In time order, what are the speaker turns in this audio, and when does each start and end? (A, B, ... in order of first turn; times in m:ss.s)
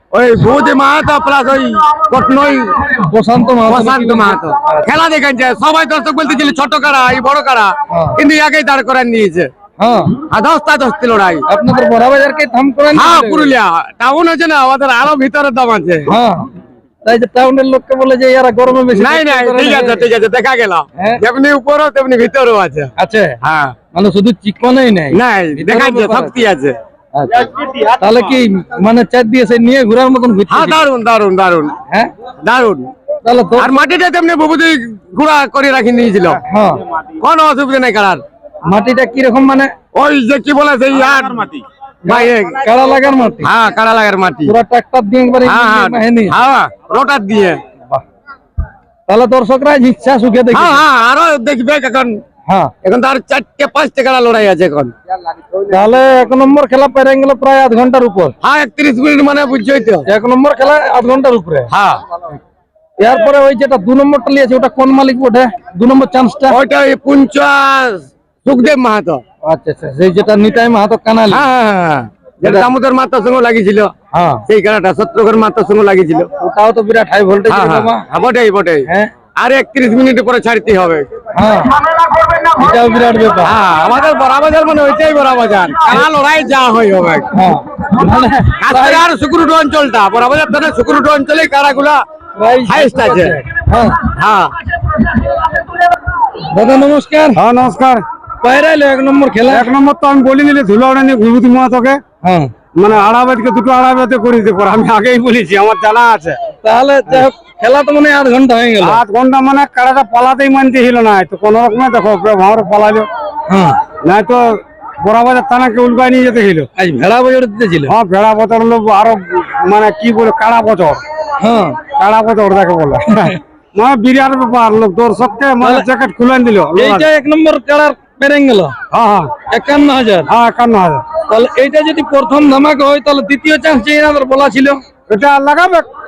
0:00.1-0:02.9 A
0:03.0-0:04.9 B
0:03.7-0:09.5 A
0:07.9-0:08.2 B
0:09.8-0:10.1 B
0:10.3-0:11.5 A
0:11.5-0:13.5 B
0:12.9-0:16.1 A
0:16.1-0:16.5 B
0:17.0-0:20.1 B
0:18.9-0:23.7 A
0:23.0-0:23.4 B
0:23.9-0:26.3 B
0:25.1-0:26.7 A
0:27.2-0:30.9 B
0:30.5-0:31.8 A
0:32.4-0:32.9 A
0:33.2-0:33.8 B
0:33.6-0:36.4 A
0:36.5-0:36.8 B
0:37.2-0:38.2 A
0:38.7-0:39.7 B
0:39.9-0:42.6 A
0:42.1-0:43.5 B
0:43.4-0:44.5 A
0:44.5-0:46.4 B
0:45.5-0:47.6 A
0:49.1-0:50.8 B
0:50.5-0:52.2 A
0:52.8-0:54.9 A
0:55.7-0:58.4 B
0:58.4-1:00.0 A
1:00.1-1:01.7 B
1:01.7-1:02.0 A
1:03.0-1:06.6 B
1:06.5-1:09.2 A
1:09.4-1:11.4 B
1:11.3-1:13.9 A
1:14.1-1:14.4 B
1:14.5-1:16.3 A
1:16.4-1:18.0 B
1:17.5-1:21.1 A
1:21.4-1:21.8 B
1:22.5-1:23.6 B
1:23.4-1:27.3 A
1:27.3-1:29.1 B
1:28.5-1:32.0 A
1:32.4-1:34.0 B
1:32.7-1:33.4 A
1:34.0-1:34.5 A
1:36.4-1:37.4 B
1:37.4-1:38.0 C
1:38.4-1:39.7 B
1:39.4-1:42.0 C
1:42.2-1:42.5 B
1:42.8-1:46.4 C
1:46.6-1:49.0 B
1:48.8-1:53.1 C
1:53.5-1:53.8 B
1:54.0-1:56.7 C
1:56.8-1:57.9 B
1:57.9-2:01.0 C
2:01.4-2:01.9 B
2:02.0-2:07.1 C
2:05.6-2:05.9 B
2:06.8-2:08.7 B
2:08.9-2:09.4 C
2:09.5-2:10.3 B
2:10.3-2:11.1 C
2:11.1-2:14.8 B
2:15.1-2:15.9 C